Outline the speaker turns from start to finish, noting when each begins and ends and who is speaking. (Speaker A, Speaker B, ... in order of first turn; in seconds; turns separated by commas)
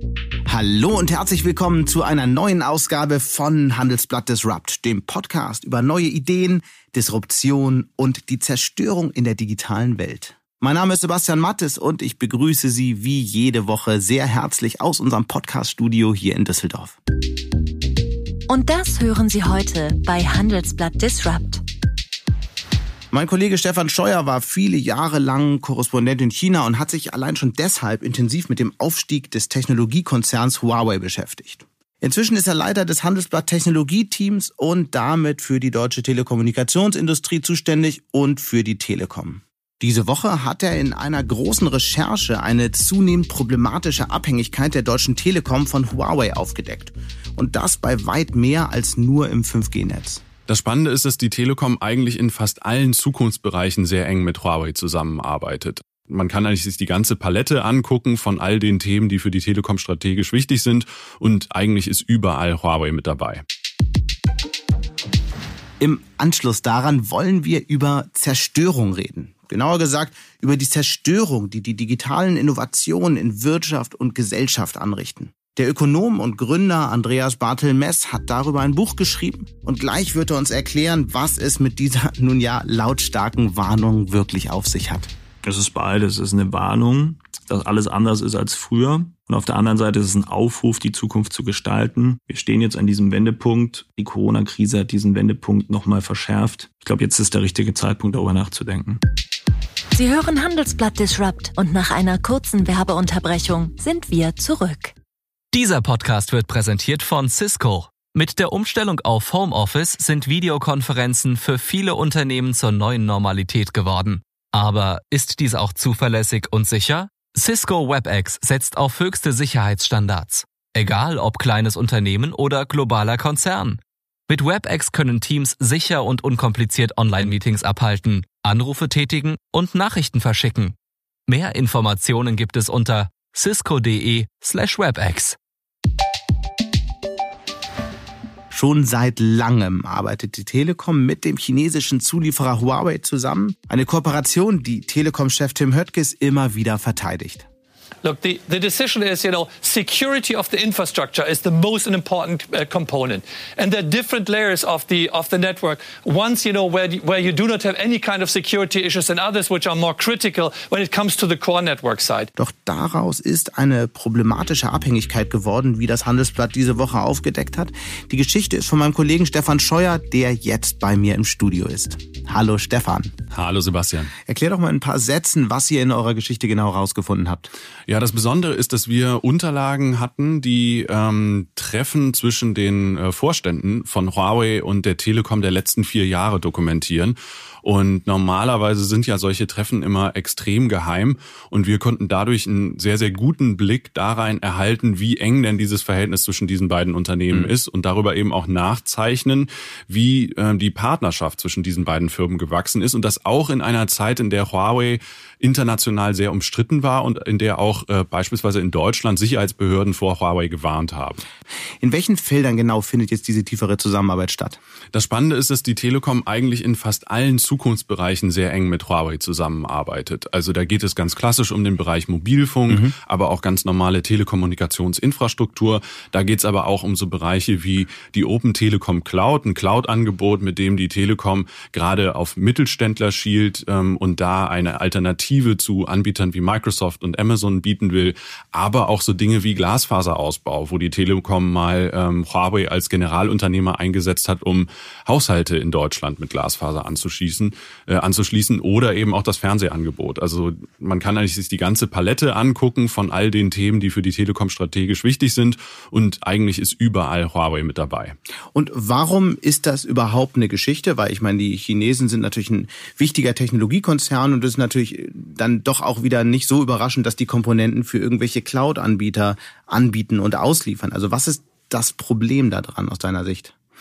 Speaker A: 0.5-17.0, Speaker B: 18.5-21.6, Speaker A: 23.1-50.2, Speaker C: 50.5-63.4, Speaker A: 65.8-85.1, Speaker D: 85.4-99.0, Speaker B: 99.9-105.0, Speaker E: 105.5-130.8, Speaker E: 131.3-135.4, Speaker A: 138.5-147.5, Speaker F: 148.0-162.3, Speaker A: 162.4-173.1, Speaker C: 173.3-174.1, Speaker A: 174.3-177.5, Speaker C: 177.9-211.2, Speaker A: 211.8-214.6, Speaker C: 214.9-258.2, Speaker A: 258.5-273.5